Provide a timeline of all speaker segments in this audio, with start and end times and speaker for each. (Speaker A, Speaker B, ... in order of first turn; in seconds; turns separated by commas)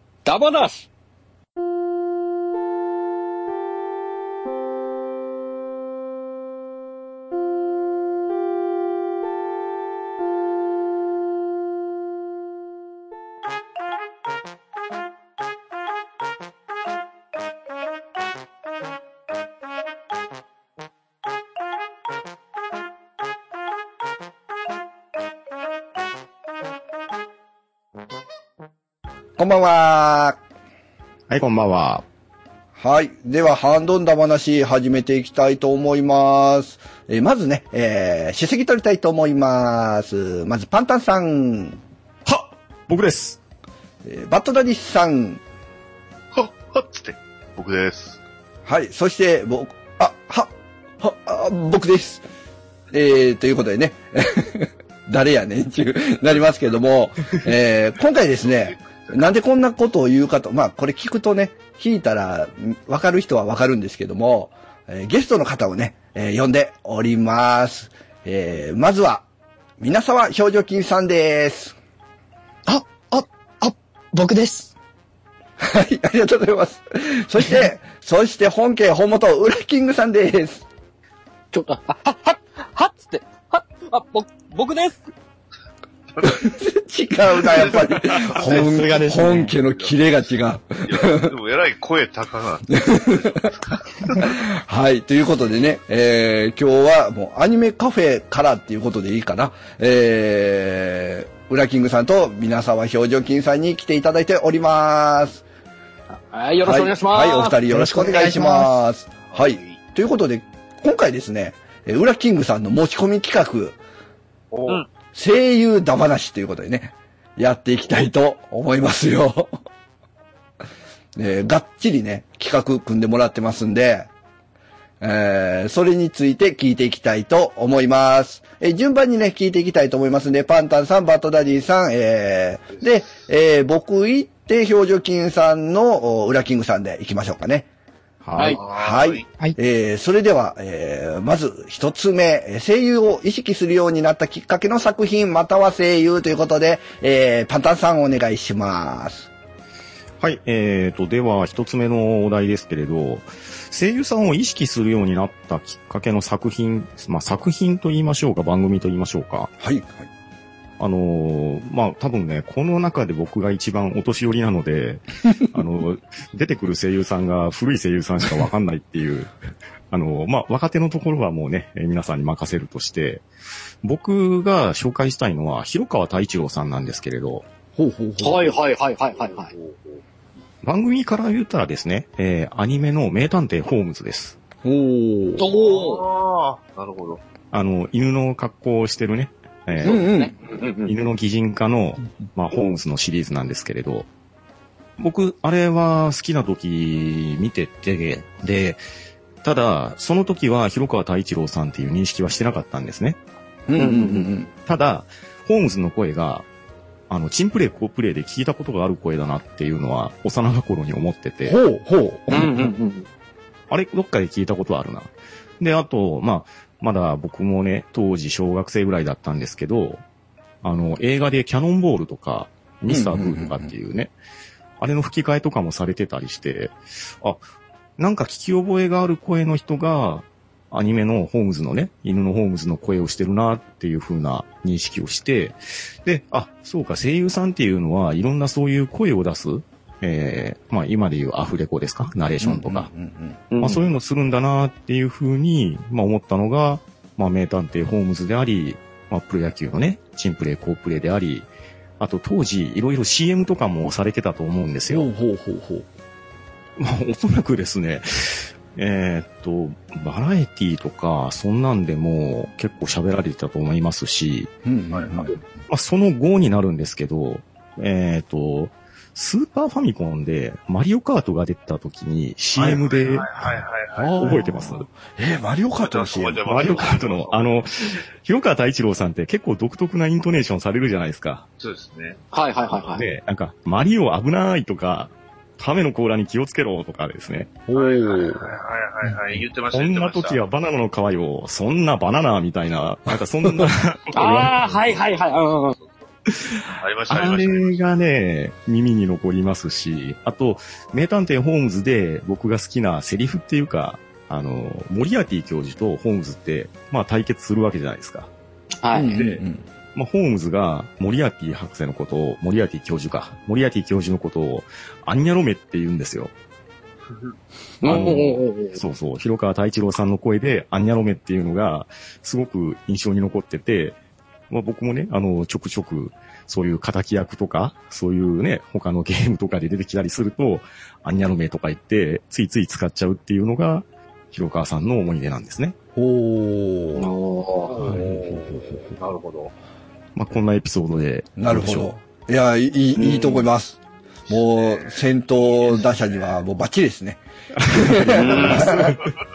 Speaker A: 0.2-0.8, Speaker B: 29.4-30.4, Speaker C: 31.3-32.0, Speaker B: 32.8-41.8, Speaker C: 42.2-43.4, Speaker B: 44.0-45.4, Speaker D: 46.3-48.2, Speaker B: 48.6-52.2, Speaker B: 52.9-69.2, Speaker D: 58.5-59.2, Speaker B: 69.8-71.7, Speaker E: 72.7-74.7, Speaker B: 75.6-80.7, Speaker A: 81.5-85.1, Speaker D: 86.2-86.4, Speaker B: 86.2-91.3, Speaker D: 87.3-88.8, Speaker E: 88.3-89.5, Speaker D: 89.5-89.9, Speaker D: 90.8-94.3, Speaker B: 92.7-93.5, Speaker B: 94.2-105.4, Speaker A: 106.1-107.6, Speaker B: 106.6-113.8, Speaker E: 107.7-108.8, Speaker D: 109.3-109.8, Speaker D: 114.5-114.8, Speaker B: 115.1-119.5, Speaker B: 121.2-124.1, Speaker B: 125.0-137.7, Speaker C: 138.2-138.6, Speaker B: 138.4-149.3, Speaker D: 138.4-139.2, Speaker C: 150.2-159.5, Speaker B: 159.6-160.1, Speaker C: 160.8-169.3, Speaker C: 169.9-173.2, Speaker C: 173.8-177.4, Speaker B: 177.8-178.5, Speaker A: 178.2-179.5, Speaker D: 179.1-180.0, Speaker C: 180.6-184.3, Speaker B: 184.6-185.4, Speaker A: 185.4-186.0, Speaker D: 185.5-187.2, Speaker C: 187.5-190.1, Speaker A: 189.8-190.9, Speaker B: 189.8-190.3, Speaker C: 190.8-194.1, Speaker C: 195.0-198.8, Speaker C: 199.4-203.2, Speaker B: 203.7-204.5, Speaker A: 203.8-204.3, Speaker C: 204.7-206.5, Speaker C: 207.1-211.6, Speaker B: 211.4-212.6, Speaker A: 212.3-213.1, Speaker C: 213.7-220.0, Speaker C: 220.6-224.1, Speaker B: 222.9-223.7, Speaker C: 224.8-227.4, Speaker C: 228.0-242.9, Speaker B: 242.4-243.4, Speaker A: 243.5-243.8, Speaker C: 243.6-251.5, Speaker C: 252.0-255.1, Speaker B: 254.9-255.9, Speaker C: 256.8-264.5, Speaker B: 264.6-265.4, Speaker D: 264.9-265.2, Speaker C: 265.7-274.9, Speaker D: 272.6-274.5, Speaker B: 274.0-276.4, Speaker D: 275.8-278.0, Speaker C: 276.5-281.5, Speaker D: 281.6-283.0, Speaker A: 282.3-283.1, Speaker C: 282.9-287.5, Speaker B: 287.7-288.5, Speaker D: 287.7-290.4, Speaker C: 289.7-294.9, Speaker B: 293.5-293.7, Speaker A: 294.1-295.8, Speaker D: 294.9-296.1, Speaker C: 296.3-308.3, Speaker D: 296.6-297.8, Speaker A: 308.8-309.2, Speaker B: 308.9-309.6, Speaker C: 309.1-309.4, Speaker C: 309.9-316.3, Speaker A: 317.8-318.8, Speaker C: 317.8-324.0, Speaker C: 324.5-335.8, Speaker B: 335.9-337.1, Speaker A: 337.0-337.8, Speaker D: 337.6-339.5, Speaker B: 337.9-338.8, Speaker C: 340.1-341.9, Speaker B: 341.4-343.8, Speaker A: 343.0-343.4, Speaker D: 344.2-346.4, Speaker B: 344.3-349.0, Speaker C: 347.6-349.0, Speaker A: 348.1-348.7, Speaker D: 348.2-349.1